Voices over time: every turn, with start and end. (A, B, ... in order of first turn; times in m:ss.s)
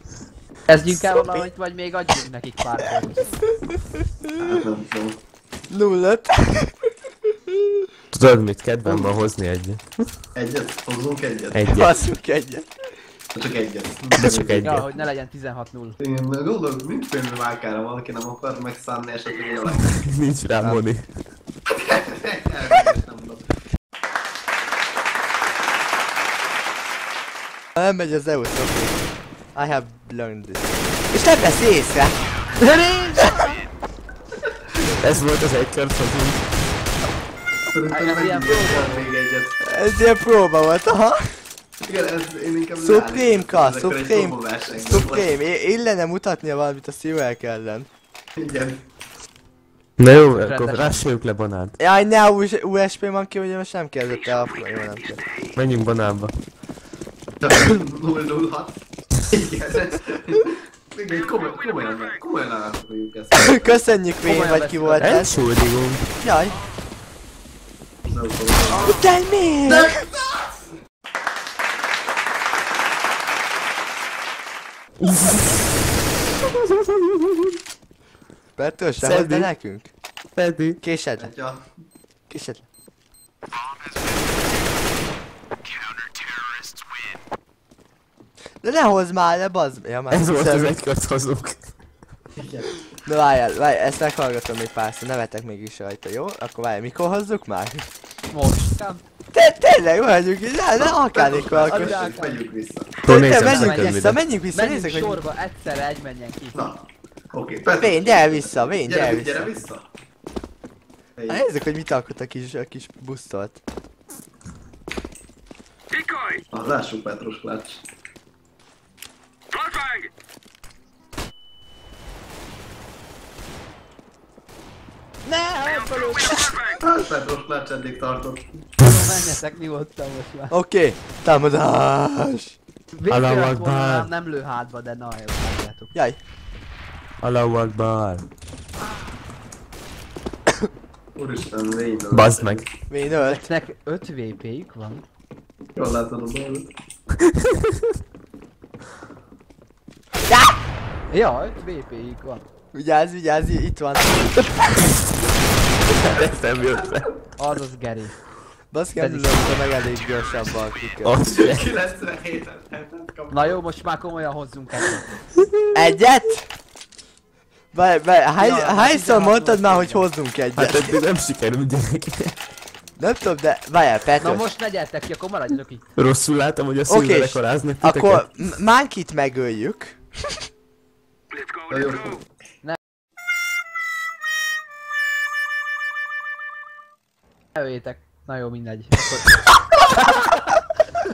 0:00.7-0:03.4 A
0:00.9-0:01.5 B
0:04.0-0:04.4 B
0:04.4-0:05.2 C
0:05.7-0:06.9 B
0:07.5-0:07.9 B
0:08.1-0:09.8 D
0:08.8-0:09.2 C
0:10.4-0:11.7 C
0:11.5-0:11.9 D
0:11.7-0:12.7 B
0:13.3-0:14.8 C
0:14.2-0:14.9 D
0:14.6-0:16.0 A
0:16.0-0:20.0 C
0:19.9-0:21.1 D
0:21.8-0:23.4 C
0:27.8-0:32.2 B
0:32.6-0:33.6 A
0:35.0-0:36.5 D
0:37.7-0:39.5 C
0:37.9-0:39.1 A
0:39.6-0:41.4 B
0:41.8-0:45.3 C
0:42.8-0:47.9 B
0:48.4-0:48.8 C
0:50.0-0:51.7 D
0:50.3-0:51.1 A
0:51.8-0:55.2 B
0:55.6-0:56.3 D
0:57.4-1:03.8 C
1:03.3-1:05.4 B
1:04.2-1:05.3 A
1:05.0-1:06.1 D
1:06.2-1:06.6 B
1:08.0-1:09.1 C
1:08.8-1:10.0 B
1:09.6-1:10.7 C
1:18.6-1:19.9 B
1:19.0-1:19.5 D
1:20.4-1:20.8 D
1:20.8-1:21.3 B
1:21.2-1:21.6 C
1:22.3-1:22.7 B
1:28.6-1:30.8 B
1:30.1-1:31.7 D
1:32.4-1:32.8 C
1:33.1-1:37.9 B
1:38.3-1:39.0 A
1:39.3-1:42.0 B
1:40.8-1:43.0 C
1:41.7-1:42.4 A
1:43.0-1:44.2 D
1:43.0-1:45.2 B
1:43.3-1:46.6 A
1:46.5-1:49.9 C
1:47.8-1:49.6 B
1:51.2-1:51.4 C
1:51.3-1:53.6 B
1:56.5-1:57.8 C
2:05.2-2:06.6 A
2:06.8-2:08.7 C
2:08.8-2:10.5 A
2:10.5-2:12.6 B
2:12.9-2:15.9 A
2:13.1-2:14.1 D
2:15.9-2:16.2 B
2:17.2-2:18.3 D
2:21.2-2:22.6 C
2:22.1-2:22.7 D
2:22.9-2:23.5 B
2:23.2-2:25.0 A
2:25.8-2:26.7 C
2:30.3-2:30.5 B
2:31.1-2:32.4 A
2:32.7-2:34.9 B
2:35.9-2:37.1 D
2:37.4-2:38.2 A
2:38.7-2:41.2 B
2:39.0-2:39.5 A
2:41.0-2:41.7 D
2:41.2-2:43.6 C
2:43.3-2:45.1 A
2:45.7-2:46.5 B
2:47.7-2:51.0 B
2:48.4-2:50.1 A
2:50.6-2:52.4 D
2:53.0-2:54.5 B
2:54.2-2:55.8 A
2:56.0-2:58.3 D
2:56.9-3:00.4 B
3:01.7-3:02.2 C
3:07.6-3:09.4 A